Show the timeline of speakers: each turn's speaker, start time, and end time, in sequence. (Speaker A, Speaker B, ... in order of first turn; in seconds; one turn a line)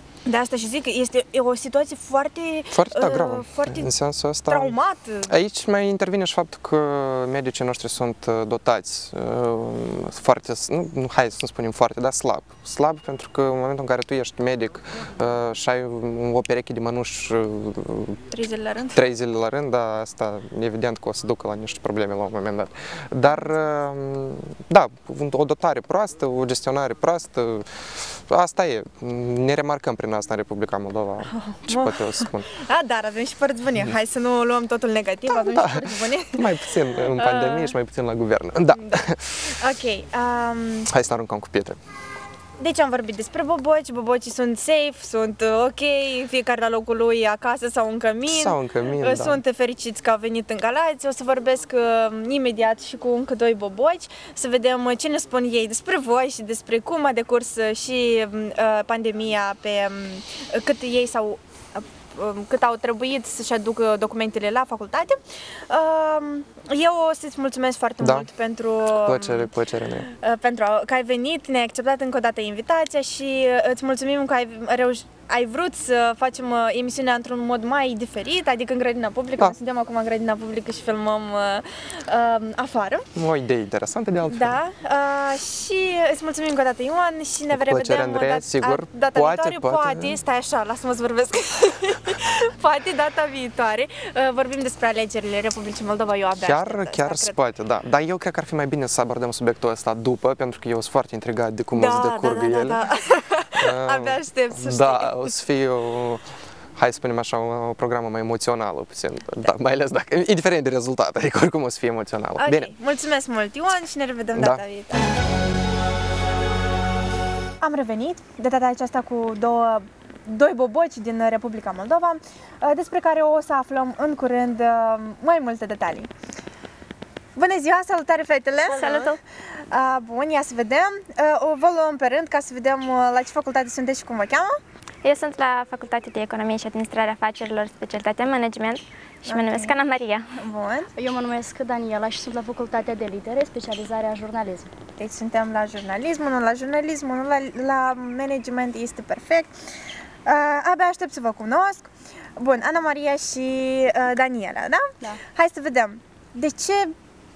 Speaker A: 0.3-3.9
Speaker B: 2.7-4.8
Speaker A: 4.5-5.3
Speaker B: 5.3-18.2
Speaker A: 18.3-19.0
Speaker B: 18.9-32.5
Speaker A: 23.3-23.6
Speaker A: 31.3-37.7
Speaker B: 35.3-39.6
Speaker A: 38.9-40.9
Speaker B: 40.9-41.8
Speaker A: 42.6-69.5
Speaker B: 48.3-49.4
Speaker B: 68.0-68.3
Speaker B: 68.9-70.1
Speaker A: 70.1-83.1
Speaker B: 83.2-84.6
Speaker A: 84.3-97.4
Speaker B: 87.5-90.2
Speaker B: 96.4-102.8
Speaker A: 101.7-105.3
Speaker B: 103.6-106.2
Speaker B: 106.8-112.7
Speaker A: 112.4-115.1
Speaker B: 114.4-114.6
Speaker A: 117.6-126.1
Speaker A: 127.4-129.2
Speaker C: 128.7-129.2
Speaker A: 129.7-134.6
Speaker C: 135.0-140.3
Speaker A: 139.3-139.8
Speaker A: 140.4-140.9
Speaker D: 141.0-144.7
Speaker A: 145.0-149.6
Speaker A: 150.2-156.9